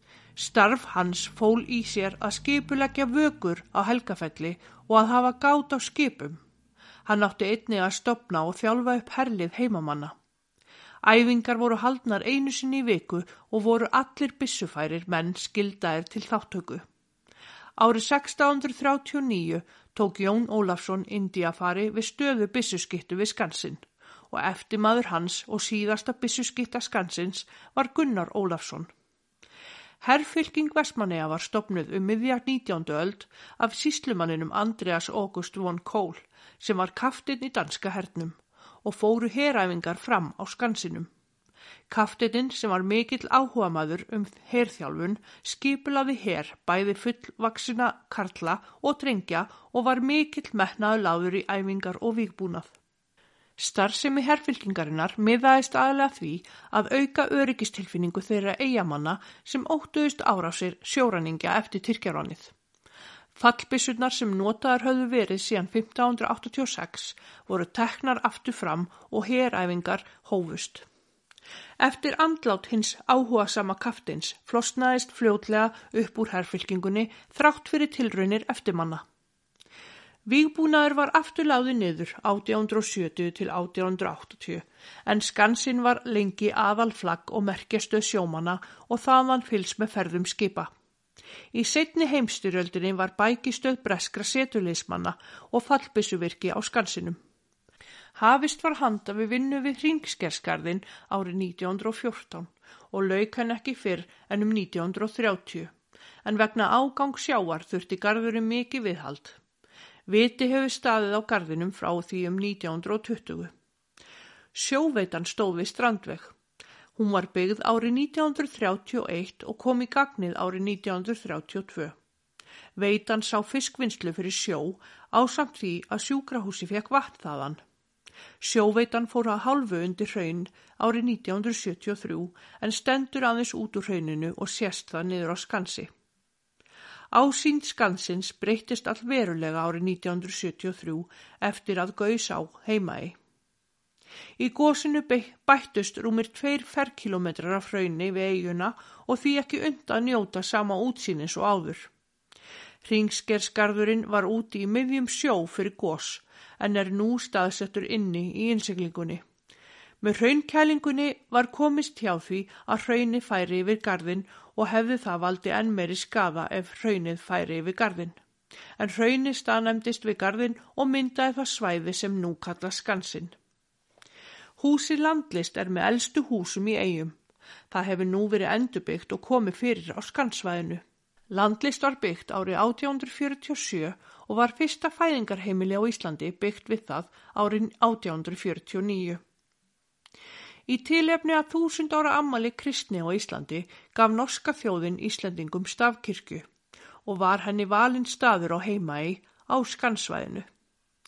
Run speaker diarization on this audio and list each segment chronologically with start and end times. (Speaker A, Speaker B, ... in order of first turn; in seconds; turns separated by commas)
Speaker A: 0.4-6.4, Speaker A: 7.0-10.1, Speaker A: 11.0-16.8, Speaker A: 17.8-28.9, Speaker A: 30.0-41.1, Speaker A: 41.9-52.7, Speaker A: 53.6-62.5, Speaker A: 63.4-70.8, Speaker A: 71.8-79.0, Speaker A: 80.3-90.7, Speaker A: 91.5-97.2, Speaker A: 98.2-105.7, Speaker A: 106.2-109.4, Speaker A: 110.1-113.5, Speaker A: 114.5-116.3, Speaker A: 117.0-122.0, Speaker A: 122.8-127.6, Speaker A: 128.4-135.9, Speaker A: 137.1-143.2, Speaker A: 144.4-151.9, Speaker A: 152.8-159.2, Speaker A: 160.0-168.2, Speaker A: 168.8-173.3, Speaker A: 174.6-177.2, Speaker A: 177.7-189.2, Speaker A: 190.7-196.4, Speaker A: 197.1-200.5